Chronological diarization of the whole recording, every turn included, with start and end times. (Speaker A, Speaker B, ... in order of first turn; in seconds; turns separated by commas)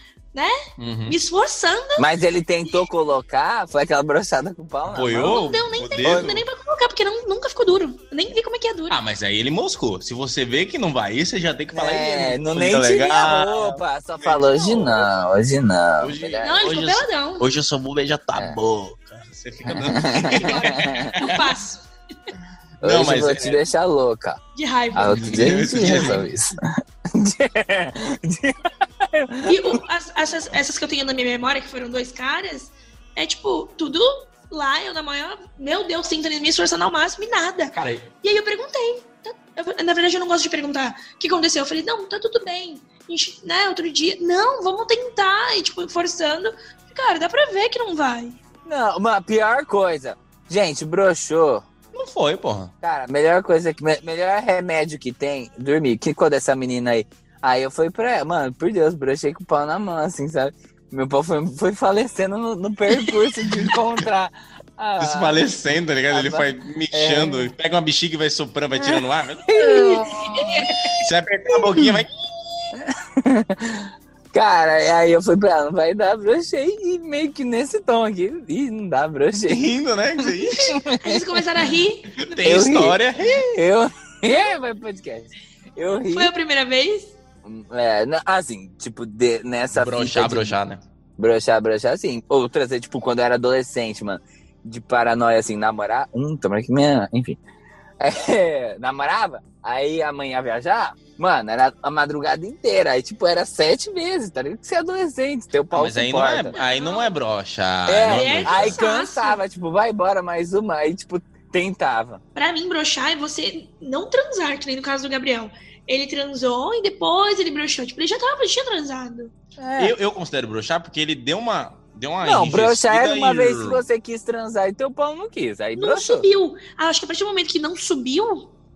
Speaker A: 0.3-2.0, Speaker B: 0.8-1.2, Speaker C: 2.0-5.4, Speaker B: 4.9-6.4, Speaker A: 5.2-9.0, Speaker C: 6.0-6.3, Speaker B: 8.9-15.1, Speaker C: 11.7-16.6, Speaker B: 16.0-21.6, Speaker A: 16.4-17.5, Speaker C: 19.6-21.1, Speaker A: 20.3-21.8, Speaker B: 22.8-23.6, Speaker C: 22.8-24.4, Speaker A: 24.6-25.7, Speaker C: 24.9-29.8, Speaker B: 25.1-26.3, Speaker A: 29.4-48.4, Speaker B: 37.7-38.1, Speaker C: 48.6-51.6, Speaker B: 51.9-52.7, Speaker C: 52.8-65.5, Speaker B: 65.0-69.7, Speaker C: 66.1-67.5, Speaker C: 68.8-70.9, Speaker A: 69.5-70.9, Speaker B: 70.9-72.7, Speaker C: 71.5-72.0, Speaker C: 72.7-81.4, Speaker B: 79.5-80.9, Speaker A: 81.0-82.4, Speaker B: 82.2-83.6, Speaker C: 82.4-86.3, Speaker A: 86.1-87.1, Speaker C: 87.4-90.5, Speaker B: 89.7-90.8, Speaker C: 91.2-97.4, Speaker C: 98.0-106.5, Speaker B: 105.7-108.8, Speaker A: 106.5-107.1, Speaker C: 107.9-112.2, Speaker A: 108.1-109.4, Speaker A: 112.3-119.3, Speaker C: 119.6-119.9, Speaker B: 119.8-123.8, Speaker C: 122.2-126.3, Speaker A: 125.8-128.5